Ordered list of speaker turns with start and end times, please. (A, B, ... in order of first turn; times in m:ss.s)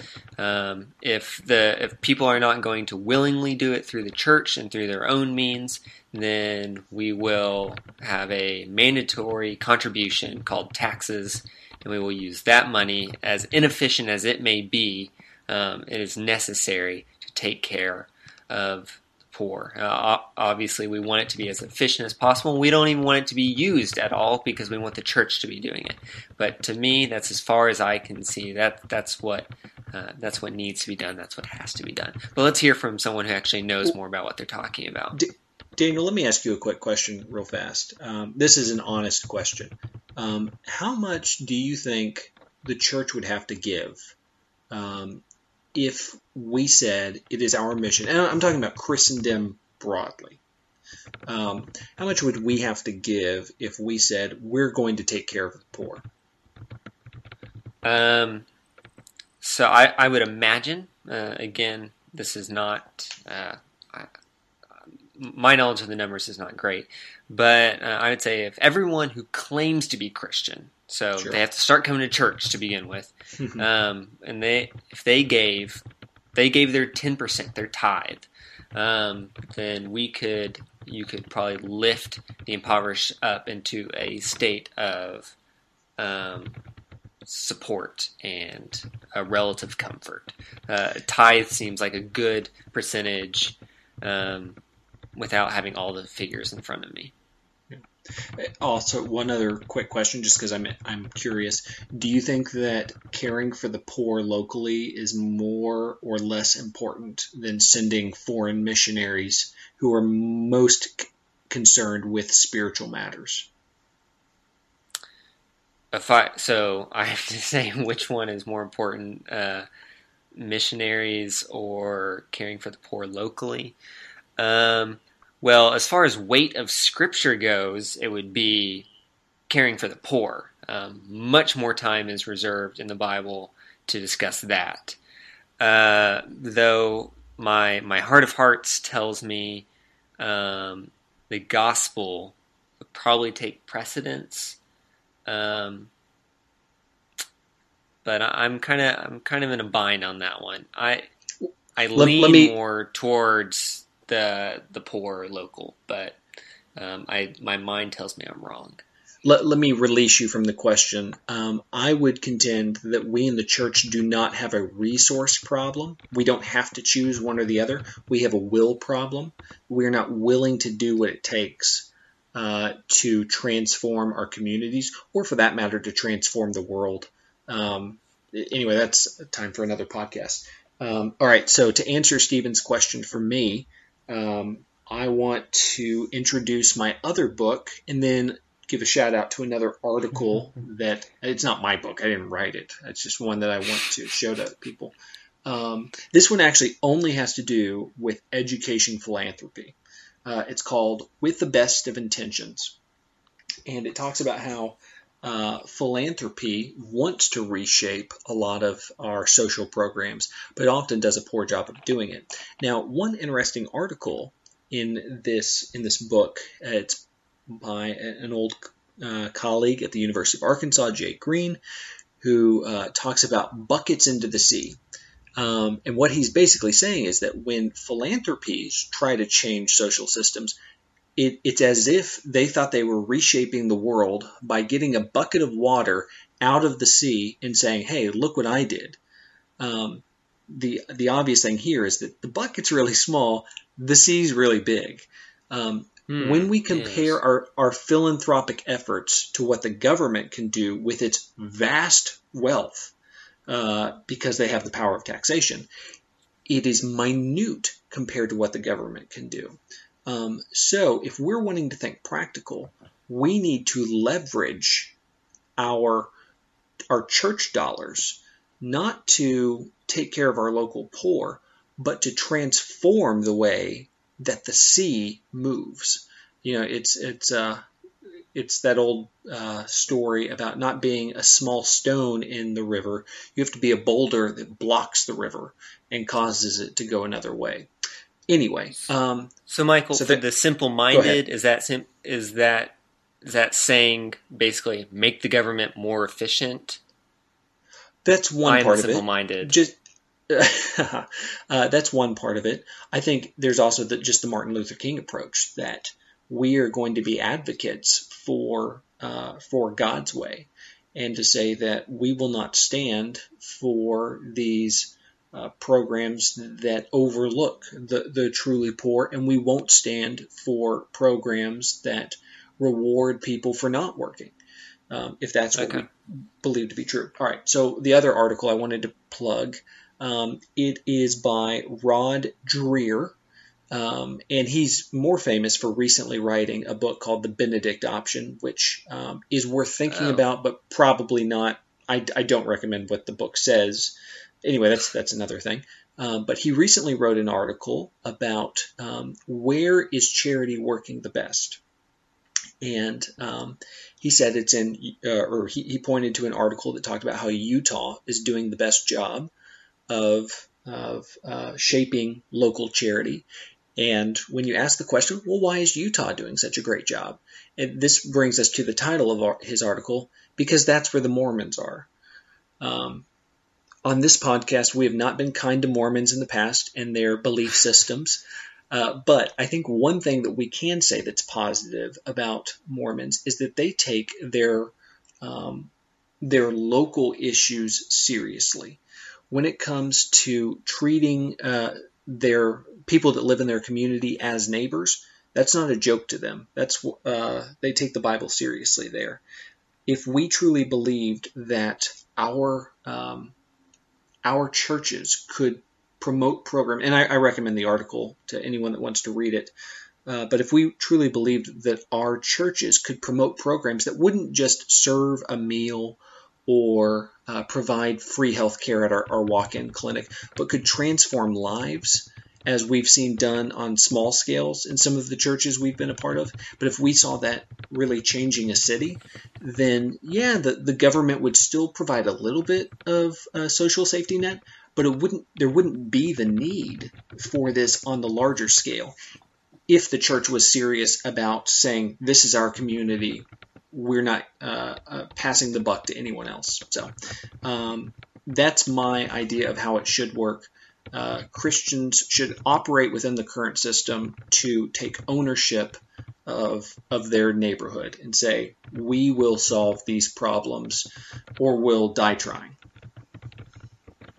0:00.4-0:35.2 A
0:35.1-0:44.0 B
0:44.7-0:45.2 B
0:45.7-0:50.4 B
0:51.3-0:56.0 B
0:57.8-0:58.4 A
0:59.4-1:04.1 A
1:05.2-1:15.8 A
1:13.4-1:13.6 B
1:16.3-1:25.3 A
1:26.0-1:26.6 A
1:27.2-1:34.6 A
1:35.1-1:37.1 A
1:37.7-1:53.5 B
1:55.9-1:59.6 A
2:00.3-2:03.8 A
2:04.4-2:08.9 A
2:09.5-2:15.0 A
2:15.6-2:19.6 A
2:20.2-2:22.3 A
2:22.9-2:24.6 A
2:25.2-2:25.9 A
2:28.0-2:31.1 A
2:31.8-2:36.2 A
2:31.9-2:32.5 B
2:36.8-2:38.8 A
2:39.2-3:22.8 B
3:23.6-3:41.6 B
3:42.2-3:44.8 B
3:45.4-3:50.6 B
3:51.2-3:59.0 B
3:59.6-4:12.9 B
4:06.1-4:07.2 A
4:13.5-4:15.7 B
4:16.5-4:24.9 B
4:25.6-4:26.1 B
4:26.9-4:37.6 B
4:38.3-4:47.7 B
4:48.3-4:49.3 B
4:49.5-4:56.8 A
4:49.9-4:50.2 B
4:50.9-4:51.2 B
4:58.0-4:59.8 B
4:58.4-4:59.5 A
5:00.3-5:24.4 B
5:24.9-5:33.2 B
5:25.6-5:25.8 A
5:33.7-5:51.6 B
5:39.9-5:40.2 A
5:52.6-5:59.3 B
5:59.9-6:11.9 B
6:12.6-6:13.0 B
6:13.8-6:25.7 B
6:26.2-6:28.8 B
6:29.3-6:39.2 B
6:39.9-6:43.3 B
6:44.2-6:49.5 B
6:50.1-7:18.9 B
7:19.7-7:26.9 B
7:27.4-7:42.6 B